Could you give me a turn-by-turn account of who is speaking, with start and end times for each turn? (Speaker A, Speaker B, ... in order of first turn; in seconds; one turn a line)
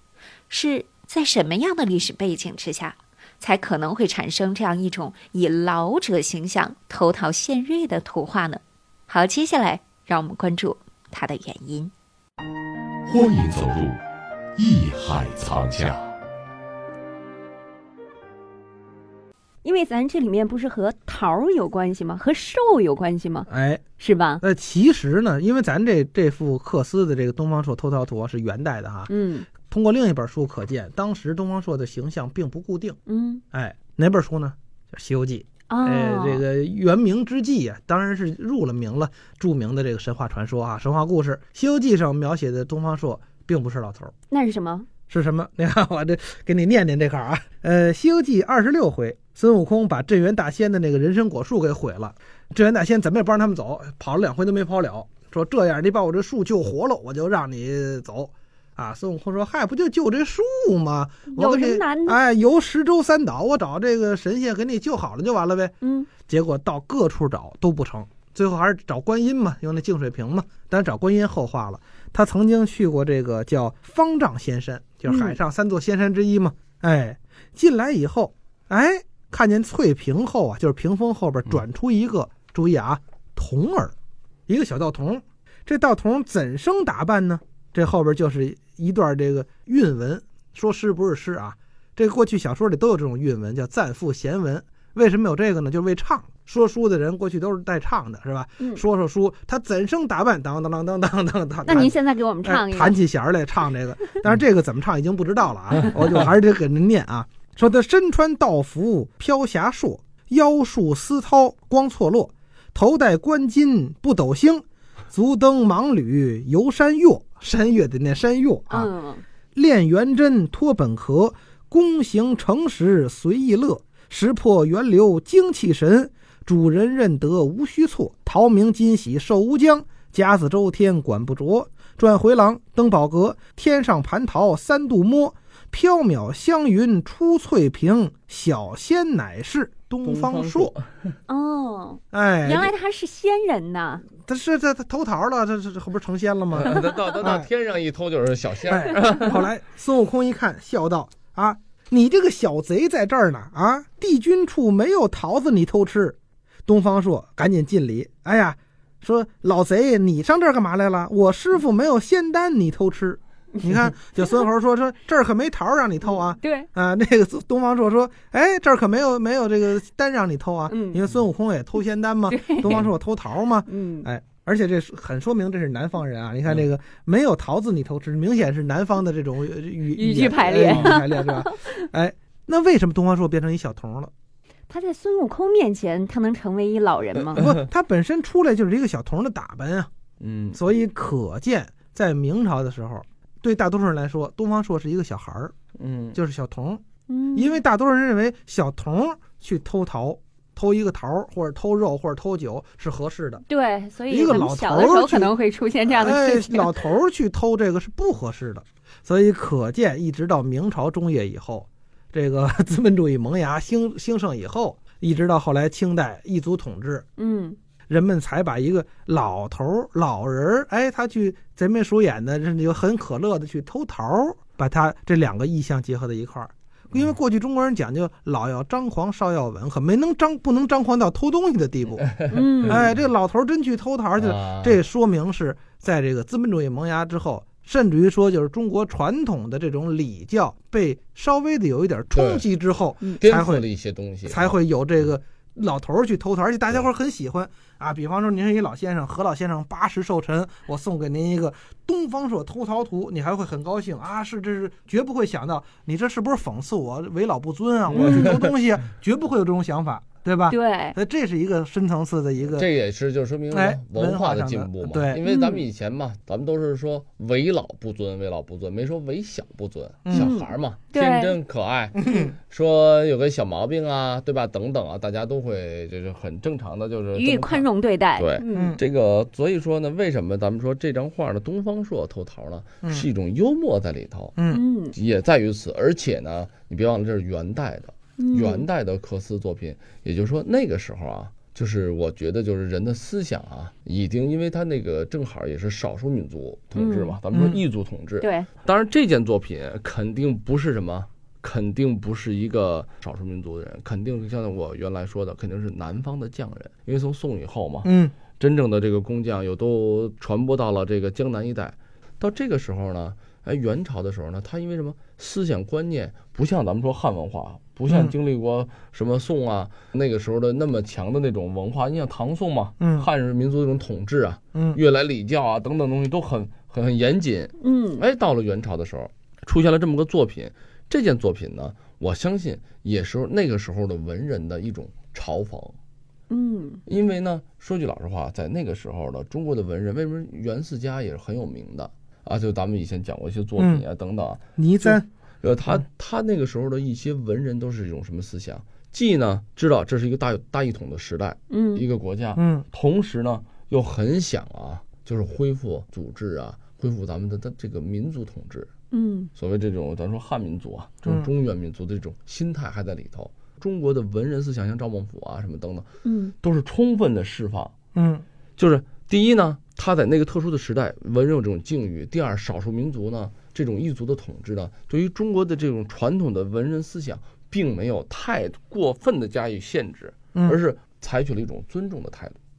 Speaker A: 0.5-11.9
Speaker B: 13.1-14.0
Speaker B: 14.6-16.0
Speaker C: 19.6-23.5
Speaker D: 23.5-23.8
Speaker C: 24.0-24.4
Speaker D: 24.4-33.0
Speaker C: 29.1-29.5
Speaker C: 33.1-33.4
Speaker D: 33.5-44.1
Speaker C: 35.7-36.4
Speaker C: 44.3-44.9
Speaker D: 45.1-83.9
Speaker C: 61.3-62.2
Speaker C: 65.8-66.1
Speaker C: 75.1-75.4
Speaker D: 84.5-118.9
Speaker C: 101.6-103.0
Speaker C: 118.7-119.2
Speaker D: 119.5-140.7
Speaker E: 140.0-141.2
Speaker C: 141.3-144.1
Speaker D: 142.1-142.7
Speaker D: 144.1-147.5
Speaker E: 146.5-149.5
Speaker D: 148.7-156.2
Speaker D: 156.7-184.1
Speaker C: 163.6-164.4
Speaker C: 166.3-166.7
Speaker C: 170.7-171.1
Speaker C: 172.3-172.9
Speaker C: 173.7-174.1
Speaker C: 179.9-181.8
Speaker E: 180.7-181.0
Speaker C: 184.7-187.4
Speaker D: 187.4-189.9
Speaker E: 190.2-190.6
Speaker D: 190.5-195.5
Speaker E: 195.8-196.2
Speaker D: 196.1-196.8
Speaker C: 197.1-197.6
Speaker D: 197.3-203.4
Speaker C: 203.5-206.7
Speaker D: 204.1-205.3
Speaker D: 205.9-217.0
Speaker C: 217.2-217.6
Speaker D: 217.9-243.7
Speaker E: 232.1-232.9
Speaker C: 232.3-232.9
Speaker E: 234.2-234.8
Speaker E: 242.1-242.4
Speaker E: 243.2-244.5
Speaker D: 244.2-262.6
Speaker E: 257.9-258.5
Speaker C: 260.5-260.9
Speaker E: 262.5-284.4
Speaker D: 263.5-265.2
Speaker C: 265.2-265.6
Speaker C: 270.1-271.4
Speaker D: 272.0-272.3
Speaker C: 277.1-278.8
Speaker D: 278.5-278.8
Speaker D: 284.4-284.6
Speaker C: 284.5-284.9
Speaker E: 284.9-335.8
Speaker C: 288.2-288.7
Speaker C: 296.8-297.2
Speaker C: 298.2-298.5
Speaker D: 307.8-308.1
Speaker D: 317.9-318.1
Speaker D: 322.8-323.1
Speaker C: 327.6-328.1
Speaker C: 336.3-336.8
Speaker E: 336.9-358.7
Speaker D: 343.6-343.8
Speaker D: 344.6-345.1
Speaker C: 351.5-351.8
Speaker D: 352.4-352.6
Speaker C: 358.9-359.3
Speaker E: 359.4-365.9
Speaker C: 366.0-366.3
Speaker E: 366.4-367.7
Speaker D: 367.9-368.2
Speaker E: 368.6-382.4